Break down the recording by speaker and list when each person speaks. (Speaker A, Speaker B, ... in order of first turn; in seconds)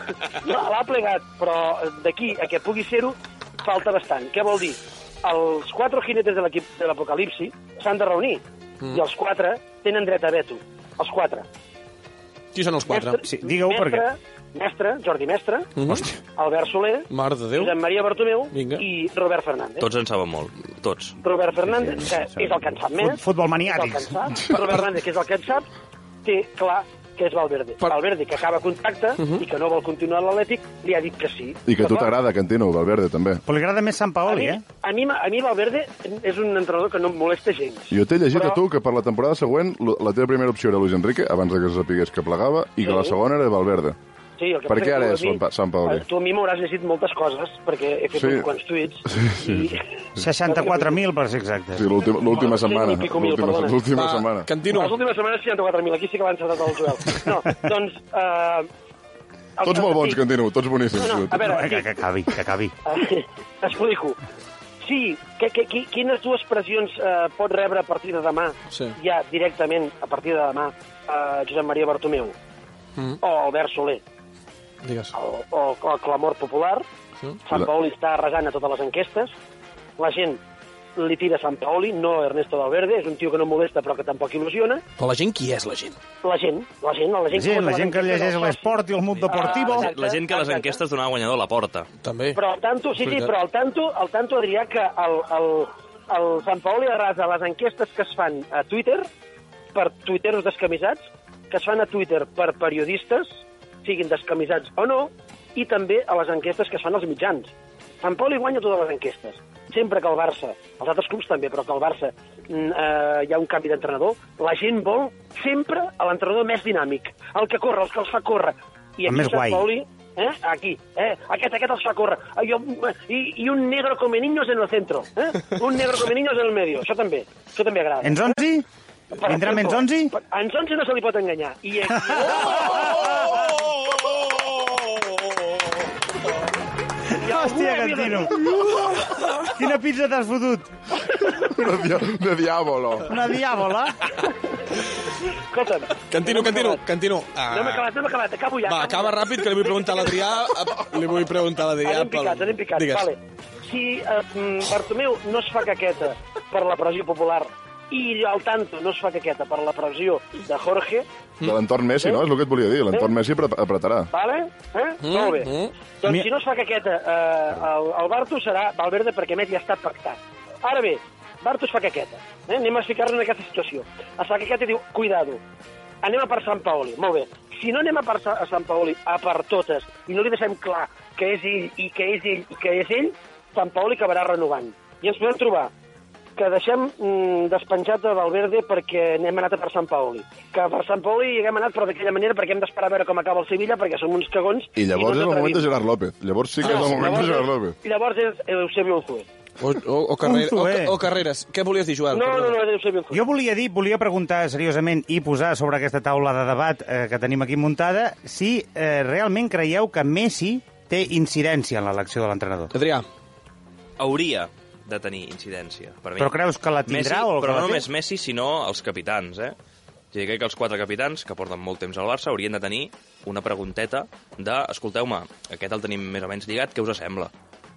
Speaker A: 0.4-11.4, 12.9-15.7, 16.3-19.9, 21.2-25.7, 26.2-32.1, 34.2-38.6, 42.8-43.1, 44.4-49.8, 50.4-51.0, 52.2-53.9, 54.7-58.7, 59.6-60.2, 61.0-61.9, 62.9-64.2, 64.8-72.3, 73.2-74.0, 75.1-76.8, 77.5-79.3, 80.0-80.4, 81.0-84.8, 86.2-90.8, 92.3-99.1, 99.7-107.5, 108.0-128.3, 129.1-133.4, 137.1-138.3, 145.5-146.8, 147.5-150.3, 151.8-161.1, 162.0-162.2, 164.1-175.4, 176.0-185.7, 186.3-195.7, 196.6-199.3, 202.1-203.2
Speaker B: 12.5-13.2, 15.8-16.1, 17.1-17.8, 18.5-18.8, 53.9-55.0, 74.8-75.1, 85.0-86.0, 92.0-92.4, 93.0-93.3, 146.1-147.9, 148.7-153.1, 165.0-165.7, 196.6-197.2, 199.6-202.6, 212.7-213.1
Speaker C: 13.2-14.0, 22.0-24.3, 33.5-34.6, 50.2-51.9, 61.4-62.7, 87.3-89.9, 119.0-119.6, 128.0-128.6, 129.2-130.1, 137.2-138.4, 139.5-140.7, 143.1-144.0, 200.2-200.9, 203.1-212.7, 216.2-217.9
Speaker D: 19.8-21.2, 89.3-91.9, 214.0-219.6, 220.1-227.3
Speaker E: 31.7-33.4, 37.9-44.0, 44.7-46.0, 48.1-48.5, 49.1-49.7, 51.8-54.5, 59.6-61.5, 141.3-143.1, 161.4-164.1, 194.8-197.8